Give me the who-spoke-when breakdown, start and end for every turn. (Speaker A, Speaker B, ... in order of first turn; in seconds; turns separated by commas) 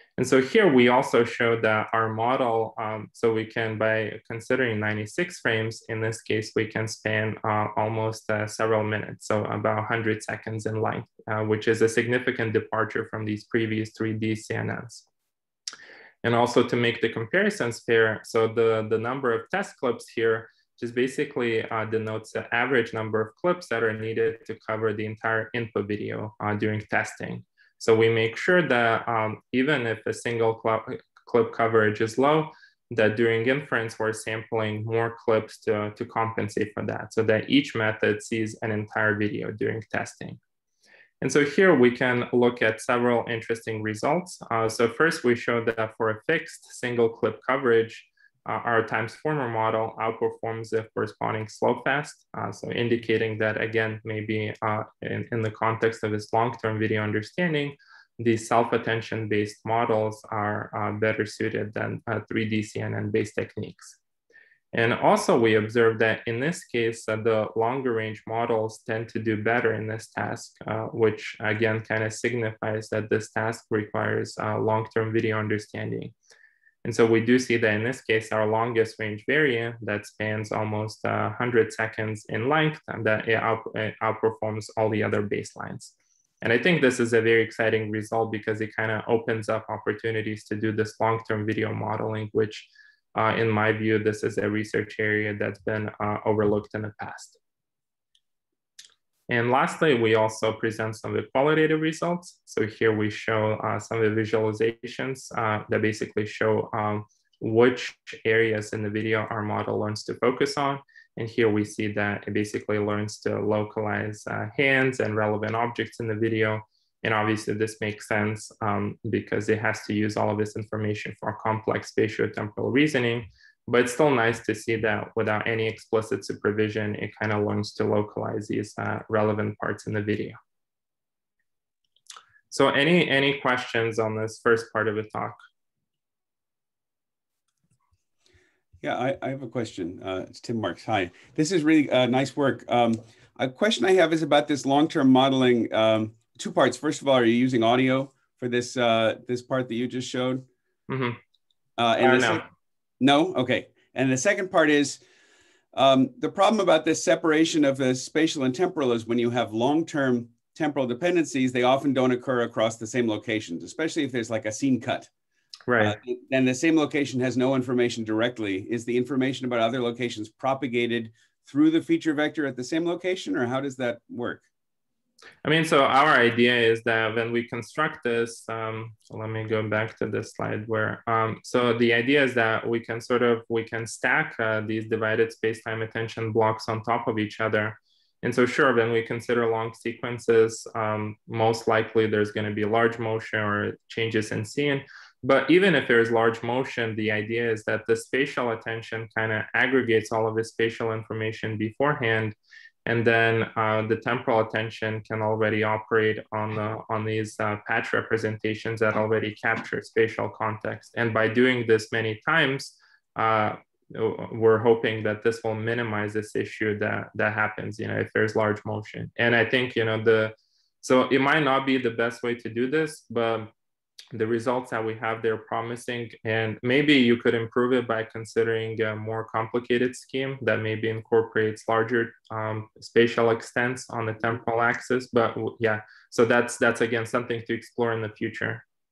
Speaker A: 0.2-15.0, Speaker A: 16.2-40.4, Speaker A: 41.2-64.0, Speaker A: 64.7-76.1, Speaker A: 76.8-97.4, Speaker A: 99.3-130.4, Speaker A: 132.5-135.4, Speaker B: 138.8-150.5, Speaker A: 150.9-151.2, Speaker B: 151.8-152.4, Speaker A: 152.0-152.5, Speaker B: 153.0-155.0, Speaker B: 155.7-165.1, Speaker A: 165.7-166.0, Speaker B: 165.8-174.4, Speaker A: 175.4-223.5, Speaker A: 224.1-238.6